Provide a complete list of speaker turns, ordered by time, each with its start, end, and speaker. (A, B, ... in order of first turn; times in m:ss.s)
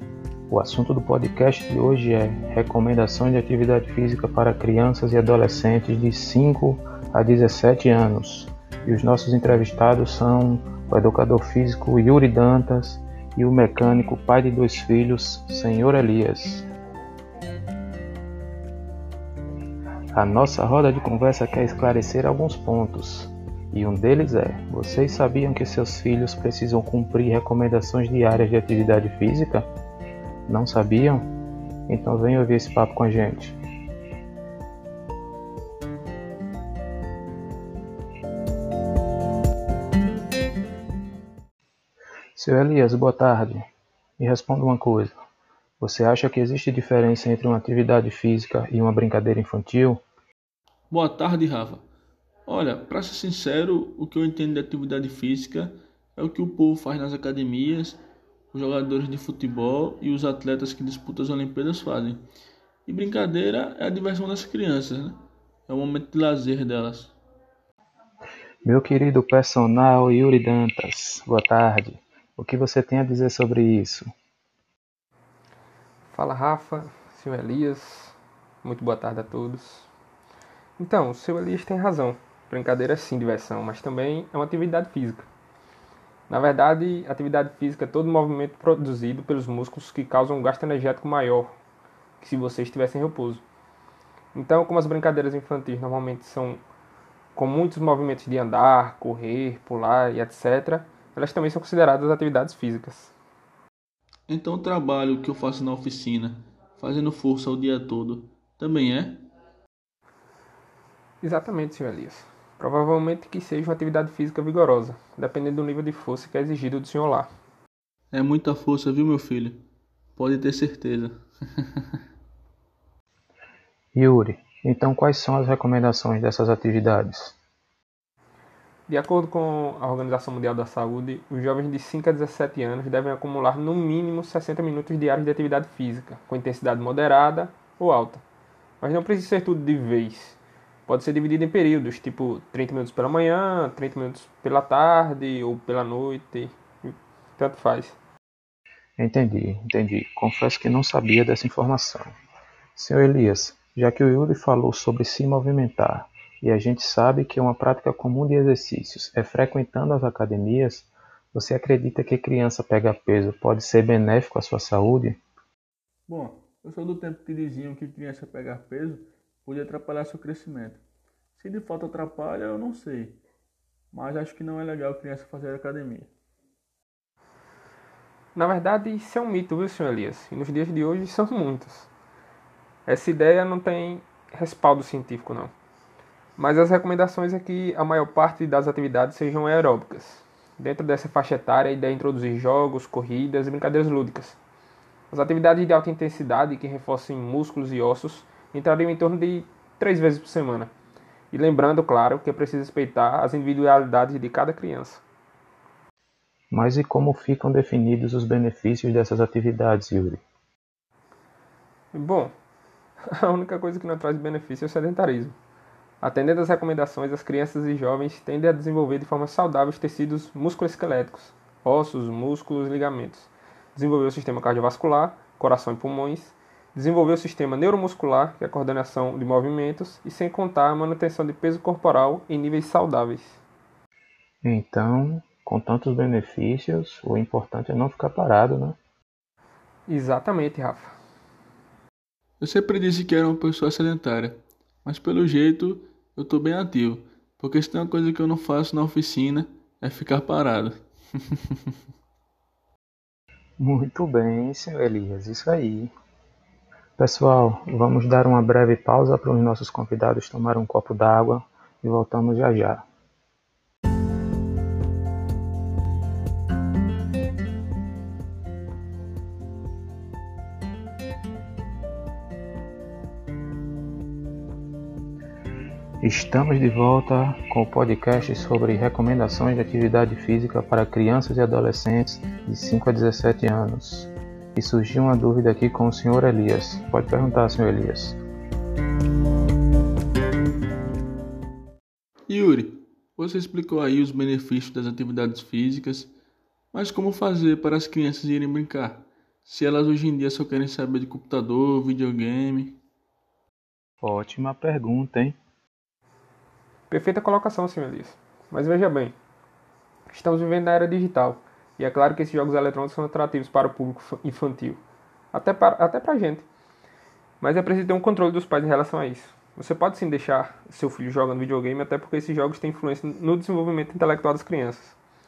0:00.5-0:16.7 A
0:20.2-0:29.7 A
0:30.5-0:31.3 A
0:31.9-0:33.6 A
0:42.4-0:43.7 A
0:44.2-0:45.1 A
0:45.8-0:50.0 A
0:50.9-0:51.9 B
0:52.5-0:58.0 B
0:58.5-1:02.2 B
1:02.9-1:07.2 B
1:08.6-1:14.1 A
1:16.1-1:19.9 C
1:20.8-1:25.3 C
1:26.3-1:31.5 C
1:32.2-1:33.4 C
1:34.3-1:36.6 C
1:37.4-1:43.1 C
1:44.3-1:49.2 B
1:51.2-1:57.3 C
1:58.1-1:59.6 B
2:00.2-2:01.7 B
2:04.0-2:07.4 A
2:08.9-2:18.2 C
2:18.8-2:28.0 C
2:29.0-2:32.1 A
2:32.8-2:45.2 A
2:46.1-2:50.8 B
2:51.4-2:53.2 B
2:53.9-2:56.1 B
2:58.4-3:01.9 C
3:02.9-3:05.5 C
3:06.4-3:14.4 C
3:15.1-3:20.7 C
3:21.3-3:25.0 C
3:26.5-3:30.2 A
3:31.9-3:32.3 C
3:33.1-3:35.4 C
3:36.0-3:53.4 C
3:54.4-3:58.8 A
3:59.9-4:01.0 C
4:02.4-4:11.4 B
4:13.6-4:15.9 A
4:17.0-4:22.8 A
4:36.0-4:48.2 A
4:52.3-4:56.1 B
4:56.7-5:02.8 B
5:04.0-5:05.4 A
5:06.9-5:09.2 C
5:10.1-5:14.8 C
5:15.3-5:16.5 C
5:17.4-5:25.0 C